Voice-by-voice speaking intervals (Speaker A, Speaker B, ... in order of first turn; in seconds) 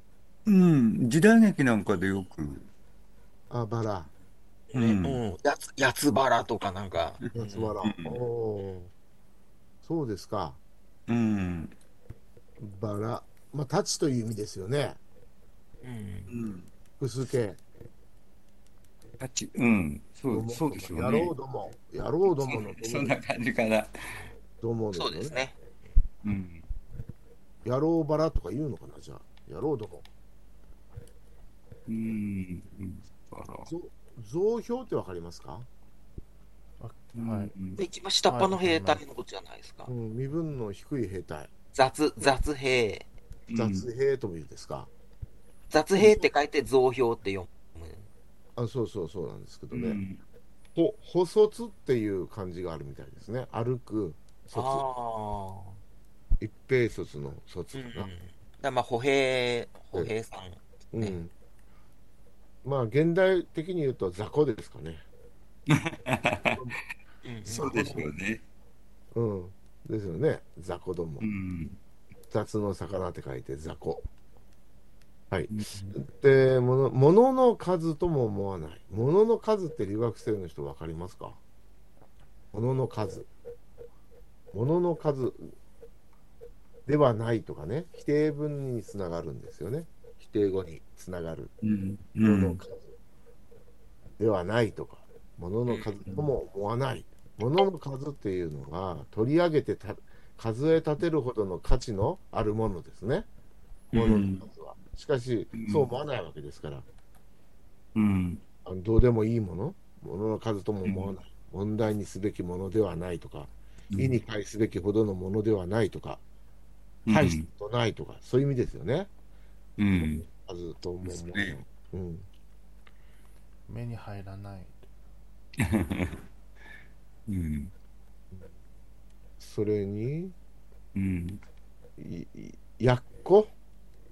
Speaker A: 0.5-2.6, 4.7-5.2, 7.8-8.2, 11.1-11.7, 16.3-16.7, 19.2-21.3, 22.4-23.9, 26.2-26.6, 31.9-33.7, 37.1-37.8, 43.5-43.9, 49.7-50.2, 65.7-66.6, 67.4-68.4, 71.2-71.8, 75.5-76.0, 91.6-92.6, 103.9-104.5, 105.5-105.9, 108.0-108.4, 110.8-111.1, 113.9-114.2, 117.0-117.5, 119.8-120.2, 121.0-121.5, 125.6-126.2, 127.3-127.7, 130.9-131.4
Speaker B: 3.5-4.1, 7.3-8.9, 9.8-10.6, 12.6-15.0, 17.0-17.6, 20.3-23.1, 24.6-25.4, 27.6-30.1, 33.6-35.7, 39.9-41.5, 43.5-44.9, 46.0-46.3, 48.5-50.0, 50.7-54.8, 56.4-58.1, 60.9-61.3, 62.6-65.0, 66.5-66.8, 67.6-68.1, 69.1-71.3, 72.3-74.0, 75.3-81.4, 82.5-83.3, 84.5-85.5, 86.8-91.5, 92.2-92.9, 94.2-103.3, 103.9-106.8, 108.6-116.2, 117.1-119.1, 119.9-122.3, 129.4-130.3, 132.0-133.5
Speaker C: 4.7-7.7, 15.8-16.3, 24.9-25.6, 37.8-39.9, 41.7-43.1, 45.7-48.0, 54.5-55.8, 57.7-61.2, 67.2-68.0, 95.7-96.0
Speaker D: 36.8-37.5, 38.3-39.0, 123.7-124.9